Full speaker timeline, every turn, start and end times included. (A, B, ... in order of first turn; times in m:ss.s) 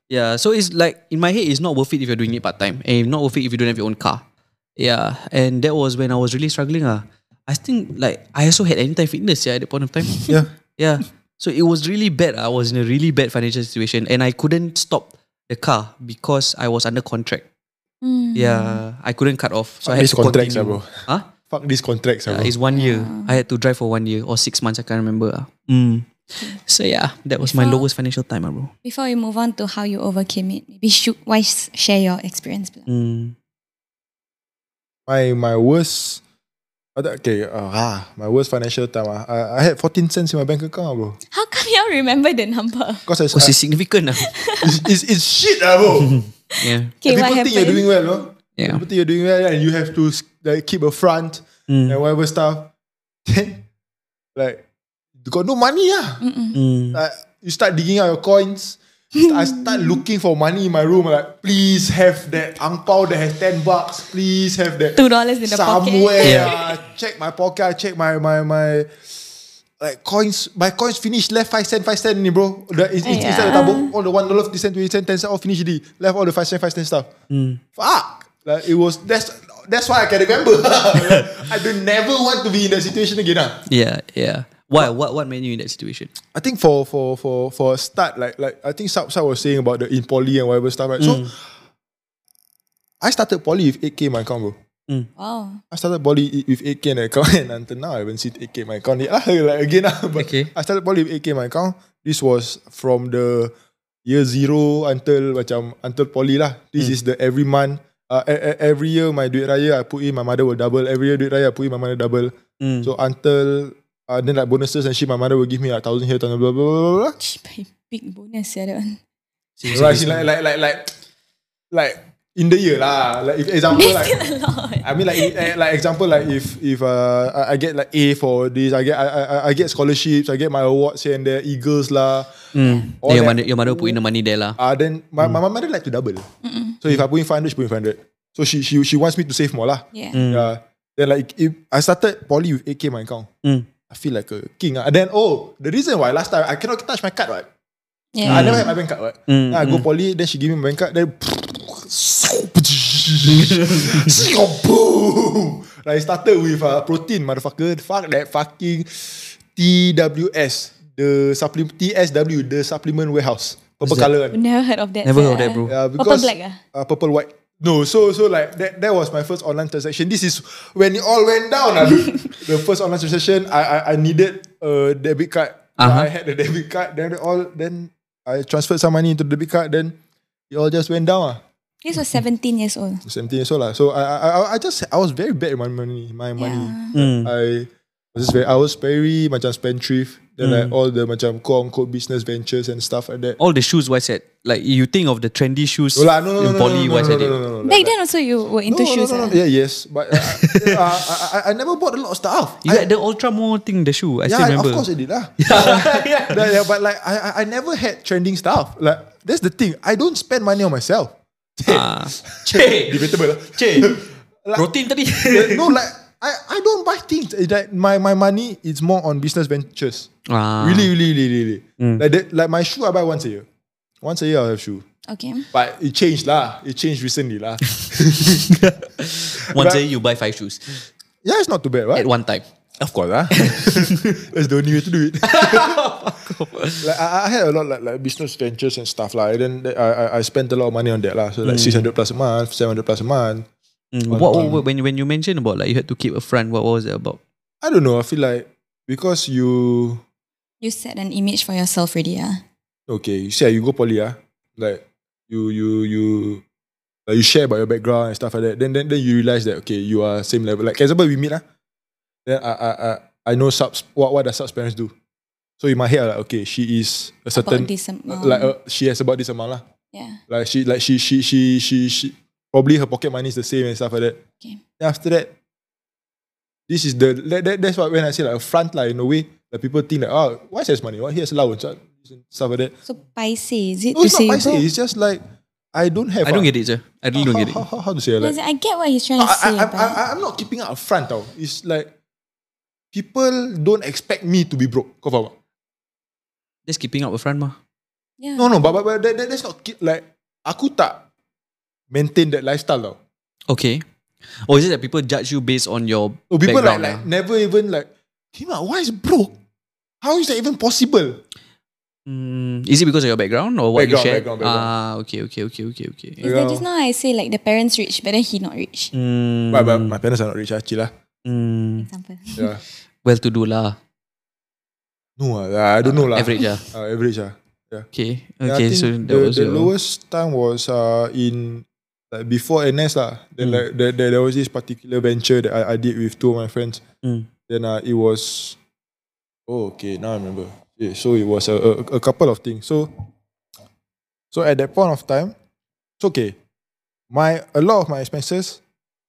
0:00.1-0:04.2 A
0:04.8-0:17.5 A
0:18.0-0:18.8 B
0:18.4-0:21.3 A
0:19.8-0:20.9 C
0:21.5-0:22.5 C
0:22.3-0:28.7 A
0:22.7-0:23.4 B
0:27.4-0:27.9 B
0:28.8-0:32.9 B
0:32.9-0:33.4 A
0:35.1-0:36.2 C
0:37.0-0:41.2 C
0:41.3-0:43.1 B
0:43.1-0:43.5 C
0:43.3-0:44.3 A
0:44.2-0:44.8 B
0:44.6-0:46.2 C
0:46.0-0:46.9 A
0:46.5-0:47.8 B
0:47.1-0:52.7 C
0:48.6-0:48.8 A
0:51.7-0:52.0 A
0:53.2-0:53.6 C
0:54.4-0:54.6 C
0:55.2-0:56.2 C
0:56.2-0:56.6 B
0:56.5-0:57.0 A
0:56.9-1:09.2 C
0:59.2-1:00.0 B
1:05.0-1:06.7 B
1:06.2-1:06.5 A
1:09.8-1:17.1 C
1:13.0-1:13.9 B
1:17.3-1:17.6 A
1:17.8-1:23.6 C
1:21.0-1:21.3 A
1:23.6-1:26.1 A
1:26.3-1:31.4 C
1:31.0-1:31.3 A
1:33.0-1:34.6 C
1:35.2-1:35.6 B
1:35.7-1:43.5 C
1:40.2-1:40.5 A
1:44.0-1:57.2 C
1:52.6-1:52.9 A
1:57.2-1:59.0 B
1:59.6-2:00.3 A
1:59.7-2:00.9 C
2:01.7-2:04.2 C
2:03.7-2:05.6 B
2:04.8-2:12.4 C
2:12.5-2:14.6 A
2:13.0-2:14.0 C
2:14.6-2:16.3 C
2:16.4-2:16.8 B
2:16.8-2:23.3 C
2:20.1-2:20.5 A
2:23.4-2:23.7 A
2:23.9-2:27.5 C
2:28.2-2:28.7 B
2:28.2-2:28.7 A
2:28.3-2:44.4 C
2:29.3-2:29.9 A
2:33.3-2:34.2 A
2:43.8-2:44.1 A
2:44.3-2:46.6 B
2:45.0-2:45.8 A
2:45.7-3:00.0 C
2:51.9-2:52.4 B
2:55.8-2:56.1 A
3:00.5-3:01.4 C
3:01.8-3:03.0 B
3:03.0-3:13.4 C
3:06.4-3:06.9 B
3:06.9-3:07.3 A
3:10.4-3:10.7 A
3:13.4-3:17.4 A
3:16.0-3:17.9 C
3:17.6-3:19.4 B
3:18.7-3:22.9 C
3:20.1-3:21.1 A
3:22.6-3:24.9 A
3:24.3-3:34.7 C
3:25.4-3:26.5 A
3:31.7-3:34.0 A
3:34.6-3:35.8 A
3:35.3-3:43.5 C
3:40.3-3:40.9 A
3:41.8-3:42.0 A
3:44.0-3:44.8 C
3:45.1-3:45.5 B
3:45.5-3:48.5 C
3:47.8-3:50.8 A
3:49.5-3:49.8 C
3:51.2-3:52.1 C
3:52.0-3:52.4 A
3:52.8-3:55.9 C
3:53.3-3:54.2 A
3:55.2-3:56.9 A
3:56.8-4:03.5 C
4:01.4-4:01.9 A
4:03.9-4:07.2 A
4:04.1-4:04.6 C
4:07.6-4:10.0 C
4:10.6-4:12.4 B
4:12.9-4:16.4 C
4:17.1-4:21.4 C
4:22.3-4:24.9 C
4:25.6-4:29.6 C
4:27.4-4:28.5 B
4:29.9-4:30.2 B
4:30.3-4:34.2 C
4:34.8-4:35.3 C
4:36.7-4:42.8 C
4:42.9-4:44.7 B
4:44.0-4:45.2 C
4:45.7-4:46.5 C
4:46.2-4:47.6 A
4:47.2-4:48.4 C
4:48.2-4:50.0 B
4:49.2-4:51.9 C
4:52.9-4:55.3 C
4:56.7-4:57.6 A
4:58.2-4:58.5 B
4:58.4-5:01.0 C
5:01.9-5:03.0 C
5:03.5-5:03.8 A
5:04.4-5:07.1 A
5:06.3-5:09.3 C
5:10.0-5:11.2 C
5:12.1-5:16.2 A
5:13.8-5:14.7 C
5:16.2-5:16.6 C
5:16.2-5:18.9 B
5:18.9-5:20.0 A
5:19.5-5:20.9 C
5:21.2-5:21.9 A
5:21.8-5:22.5 B
5:23.0-5:23.8 A
5:25.2-5:27.9 C
5:25.8-5:26.6 A
5:27.9-5:29.7 A
5:28.4-5:36.8 C
5:37.0-5:37.3 A
5:37.5-5:38.6 C
5:39.5-5:42.9 C
5:44.3-5:45.3 C
5:46.0-5:46.4 C
5:47.1-5:48.6 C